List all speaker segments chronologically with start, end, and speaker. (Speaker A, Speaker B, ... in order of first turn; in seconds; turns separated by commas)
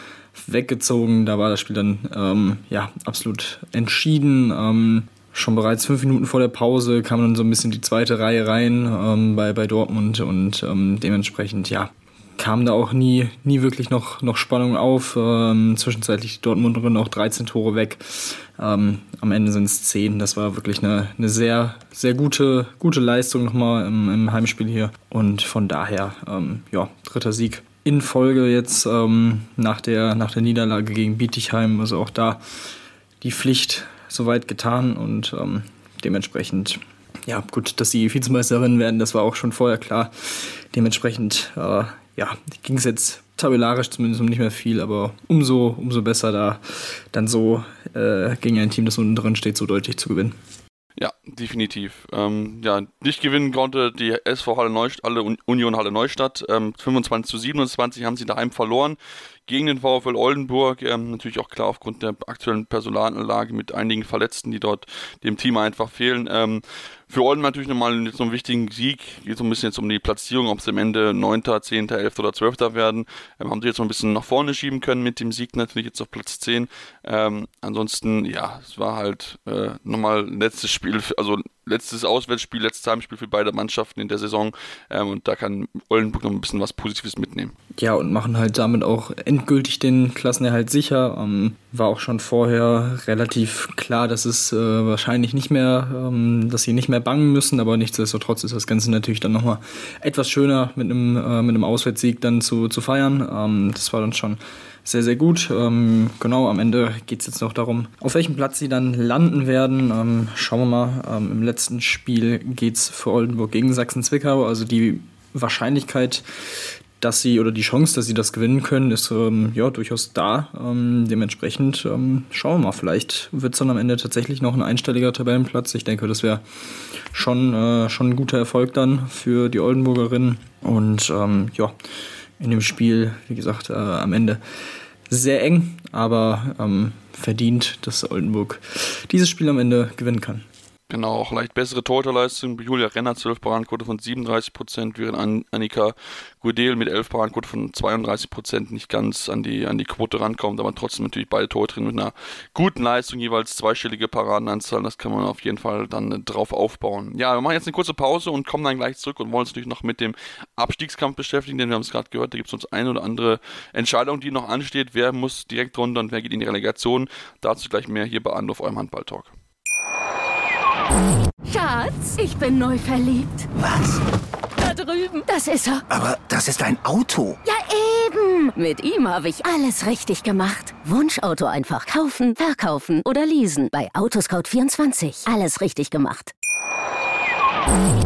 Speaker A: 0.3-32.4, Speaker A: 33.2-50.4, Speaker B: 51.0-87.5, Speaker A: 87.8-116.2, Speaker A: 117.0-126.4, Speaker A: 126.9-131.7, Speaker A: 132.4-134.4, Speaker A: 135.1-140.4, Speaker B: 140.9-169.3, Speaker C: 171.4-173.5, Speaker D: 173.5-174.0, Speaker C: 174.6-175.8, Speaker D: 175.9-177.4, Speaker C: 177.4-186.3